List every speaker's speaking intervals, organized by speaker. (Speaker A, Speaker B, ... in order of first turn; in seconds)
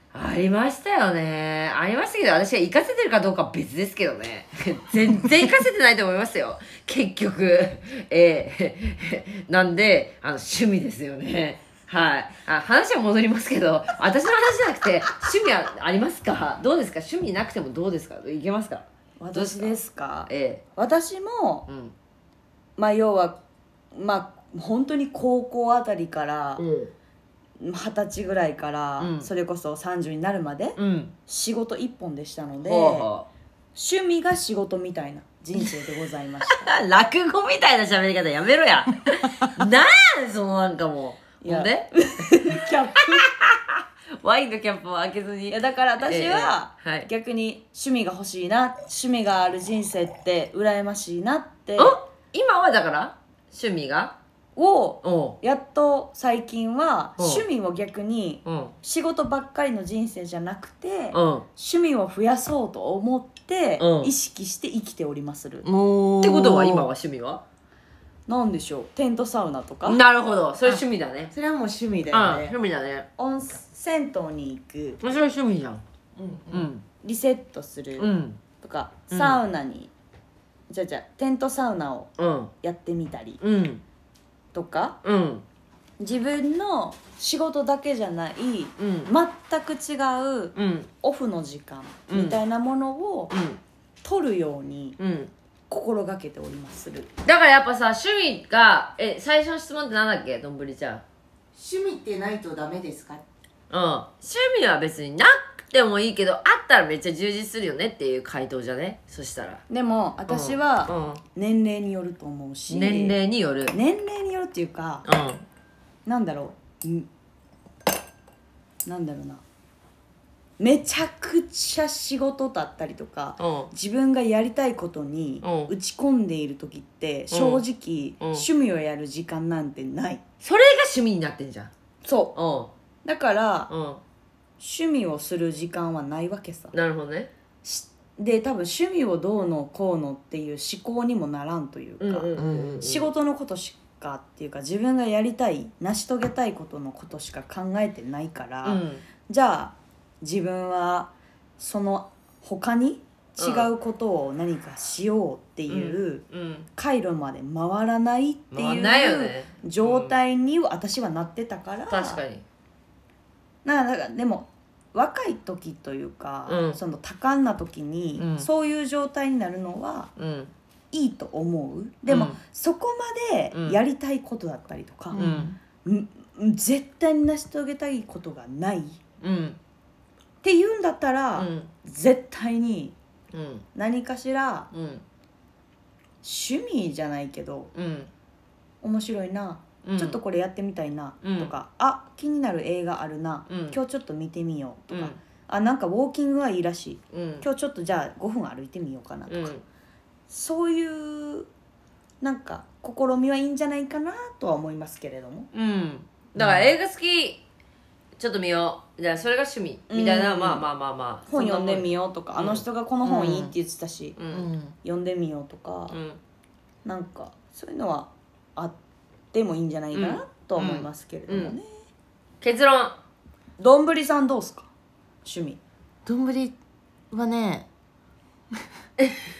Speaker A: 0.1-20.6, 21.7-21.9, 26.6-26.9, 29.0-29.3, 30.8-31.1, 32.6-33.3, 36.5-47.1, 51.8-54.1, 55.0-55.4, 57.2-57.4, 58.4-58.7, 61.1-61.5, 63.8-64.1, 66.2-67.4, 69.8-71.3, 72.1-73.1, 75.0-75.8, 76.5-76.8, 78.0-78.4, 79.1-79.4, 82.2-82.5, 83.4-83.8, 85.0-85.4, 88.8-89.1, 90.5-90.9, 92.1-92.4, 93.3-93.6, 95.0-95.3, 97.2-101.0, 103.7-109.6, 110.3-111.2, 112.7-113.7, 115.0-115.4, 123.4-123.7, 125.4-125.7, 127.3-127.6, 128.2-128.5, 130.4-131.7, 132.3-132.7, 133.7-134.0, 136.7-137.3, 142.0-143.1, 148.6-149.0, 153.4-153.7, 155.7-156.7, 158.5-160.1, 161.9-162.4, 166.5-166.8, 168.2-168.5, 170.2-170.5, 172.1-172.4, 173.5-173.8, 175.2-175.5, 179.2-179.6, 181.3-181.7, 183.3-183.6, 184.7-185.0, 187.7-188.1, 189.8-190.2, 191.2-191.5, 193.5-193.8, 194.9-195.2, 197.1-197.4, 199.3-199.6, 205.5-207.4, 208.2-212.7, 214.2-214.5, 215.9-216.2, 219.9-221.6, 222.4-222.9
Speaker B: 19.2-21.6, 22.8-23.4, 23.9-26.6, 27.6-33.1, 33.8-36.7, 41.4-43.3, 45.5-52.0, 54.5-65.7, 68.3-70.0, 73.2-75.0, 77.0-79.9, 80.7-82.1, 82.6-83.4, 84.5-85.0, 86.0-93.3, 94.0-95.0, 95.7-97.1, 109.7-113.2, 113.7-115.0, 116.0-117.1, 118.8-119.4, 120.6-130.2, 132.0-132.3, 133.0-133.7, 134.6-136.7, 137.6-156.2, 156.8-162.2, 163.6-170.1, 170.9-175.2, 175.8-179.0, 180.4-182.9, 183.7-184.7, 186.2-187.7, 188.8-199.5, 200.3-201.5, 202.2-205.5, 209.9-210.6, 211.3-214.2, 214.8-216.0, 216.8-218.7, 219.3-221.6, 223.6-224.7, 225.2-225.6
Speaker C: 65.6-66.9, 70.6-72.5, 76.2-76.7, 101.5-103.2, 142.3-142.8, 175.1-175.5, 206.4-206.7, 213.0-213.5, 214.3-214.7, 226.1-226.6, 227.1-227.7